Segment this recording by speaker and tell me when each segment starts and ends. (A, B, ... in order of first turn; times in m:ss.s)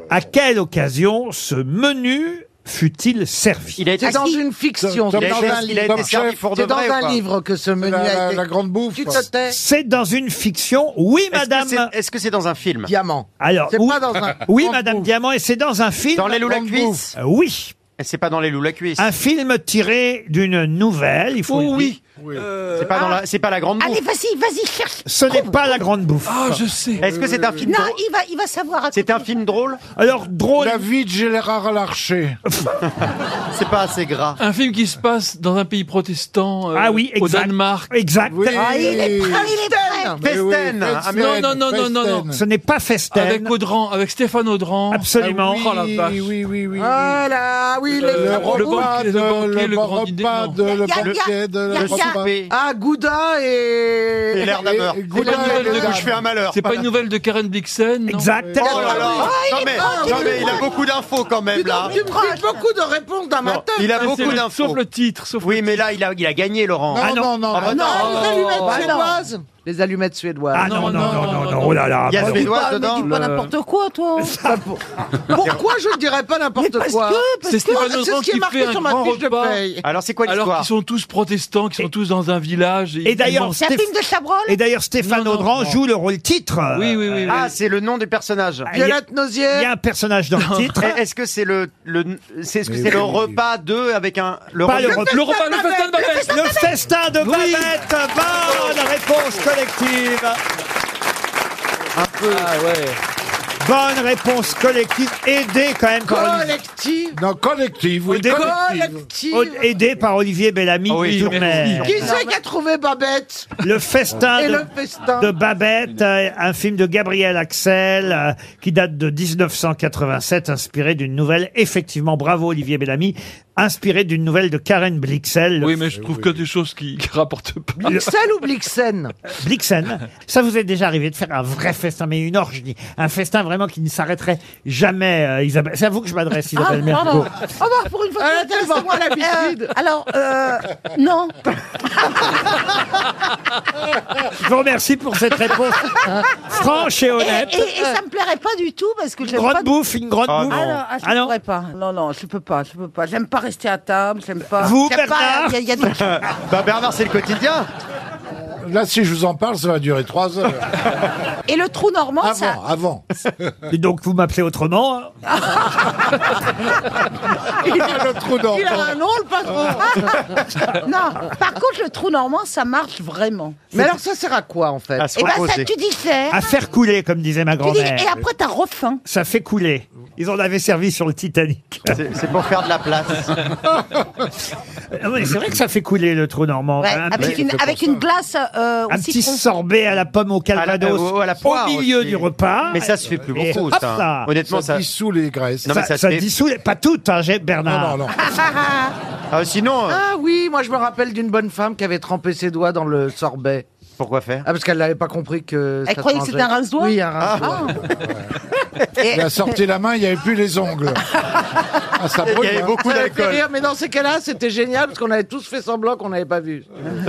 0:00.1-0:03.9 A
0:03.8-0:04.2 B
0:04.0-0:08.4 C
0:04.0-0:04.4 D
0:04.8-0:06.4 E
0:05.1-0:07.2 B
0:07.8-0:09.3 E
0:08.9-0:09.6 C
0:09.4-0:11.9 A
0:11.3-0:12.9 B
0:12.8-0:14.4 C
0:13.4-0:16.5 A
0:14.4-0:15.1 E
0:16.1-0:17.1 B
0:16.4-0:17.1 E
0:17.2-0:17.7 A
0:18.0-0:19.1 B
0:19.0-0:22.0 A
0:21.5-0:23.0 F
0:22.2-0:22.4 E
0:22.8-0:24.0 B
0:22.9-0:23.2 D
0:23.8-0:25.8 D
0:25.0-0:26.6 A
0:26.2-0:27.2 F
0:27.0-0:28.0 B
0:27.6-0:29.3 D
0:28.9-0:29.8 B
0:30.0-0:30.8 A
0:30.6-0:32.4 E
0:33.5-0:34.4 B
0:34.4-0:37.9 F
0:36.7-0:39.0 A
0:38.3-0:39.5 E
0:38.6-0:40.2 D
0:38.6-0:40.2 C
0:40.2-0:42.4 E
0:40.2-0:41.6 B
0:41.1-0:42.3 F
0:42.3-0:43.5 A
0:43.1-0:46.4 F
0:44.9-0:45.7 A
0:45.2-0:47.2 E
0:46.8-0:48.9 C
0:47.9-0:50.6 F
0:48.0-0:52.3 E
0:50.6-0:52.2 D
0:51.7-0:52.5 B
0:52.5-0:54.6 C
0:54.3-0:56.8 B
0:54.6-0:56.2 E
0:55.1-0:55.9 C
0:55.3-0:58.4 F
0:58.1-0:59.2 A
0:58.4-0:58.6 E
0:58.6-1:02.0 B
0:58.6-1:00.7 C
0:58.9-1:00.7 D
1:01.5-1:04.4 C
1:01.8-1:02.7 D
1:03.4-1:04.8 B
1:04.0-1:06.0 F
1:05.4-1:08.6 B
1:06.9-1:08.0 E
1:07.0-1:07.3 A
1:07.6-1:09.2 D
1:07.9-1:11.0 C
1:08.0-1:08.8 F
1:10.5-1:12.6 A
1:10.6-1:12.0 F
1:12.1-1:13.1 B
1:12.2-1:14.6 D
1:13.0-1:13.5 F
1:14.4-1:14.8 C
1:15.3-1:19.8 C
1:16.6-1:18.0 D
1:17.4-1:19.6 F
1:19.8-1:20.7 B
1:20.2-1:23.6 F
1:23.0-1:23.9 A
1:23.3-1:24.6 D
1:24.5-1:27.4 A
1:26.7-1:27.5 F
1:27.3-1:28.7 B
1:28.7-1:31.0 A
1:28.7-1:29.7 C
1:30.4-1:30.8 F
1:30.8-1:35.0 B
1:32.6-1:33.4 E
1:34.6-1:35.2 A
1:34.8-1:36.1 C
1:35.0-1:36.3 F
1:35.9-1:36.8 D
1:36.2-1:40.4 A
1:37.2-1:37.8 F
1:41.9-1:42.5 B
1:42.3-1:43.0 F
1:43.6-1:46.5 A
1:46.0-1:47.2 C
1:47.1-1:49.0 E
1:48.1-1:48.5 A
1:48.1-1:49.6 C
1:49.3-1:52.1 A
1:50.9-1:52.1 B
1:51.8-1:53.5 C
1:51.9-1:52.4 D
1:53.6-2:05.8 A
1:54.3-1:55.3 C
2:05.6-2:08.0 F
2:05.9-2:06.4 E
2:07.8-2:09.1 C
2:09.3-2:17.3 A
2:16.6-2:21.4 D
2:18.2-2:19.7 C
2:22.0-2:22.4 D
2:24.4-2:26.0 A
2:25.8-2:26.6 D
2:26.5-2:27.6 A
2:27.2-2:29.7 D
2:27.6-2:27.9 C
2:29.3-2:31.3 A
2:30.3-2:30.8 B
2:30.4-2:36.2 D
2:34.6-2:35.6 A
2:35.8-2:37.7 B
2:38.6-2:40.9 E
2:41.4-2:42.6 D
2:42.2-2:43.5 E
2:43.7-2:45.1 A
2:45.3-2:46.4 D
2:47.6-2:49.0 E
2:48.4-2:50.2 C
2:49.8-2:53.9 D
2:53.7-2:55.1 C
2:55.0-2:55.7 B
2:55.1-2:56.5 D
2:56.3-2:58.1 A
2:57.6-2:59.0 D
2:59.0-3:02.0 A
3:01.9-3:03.4 B
3:04.9-3:07.8 A
3:06.8-3:09.4 D
3:07.5-3:08.0 E
3:08.9-3:14.3 A
3:10.5-3:14.8 B
3:14.4-3:15.7 E
3:15.6-3:16.3 B
3:15.7-3:18.0 A
3:17.6-3:18.3 E
3:18.2-3:18.9 D
3:19.3-3:20.0 B
3:19.9-3:23.6 C
3:24.0-3:24.4 B
3:24.4-3:27.7 C
3:25.8-3:27.8 D
3:27.2-3:27.6 B
3:28.0-3:28.2 E
3:28.8-3:29.1 B
3:29.0-3:29.6 D
3:29.1-3:31.0 E
3:31.9-3:32.8 E
3:32.2-3:33.5 B
3:32.8-3:36.9 C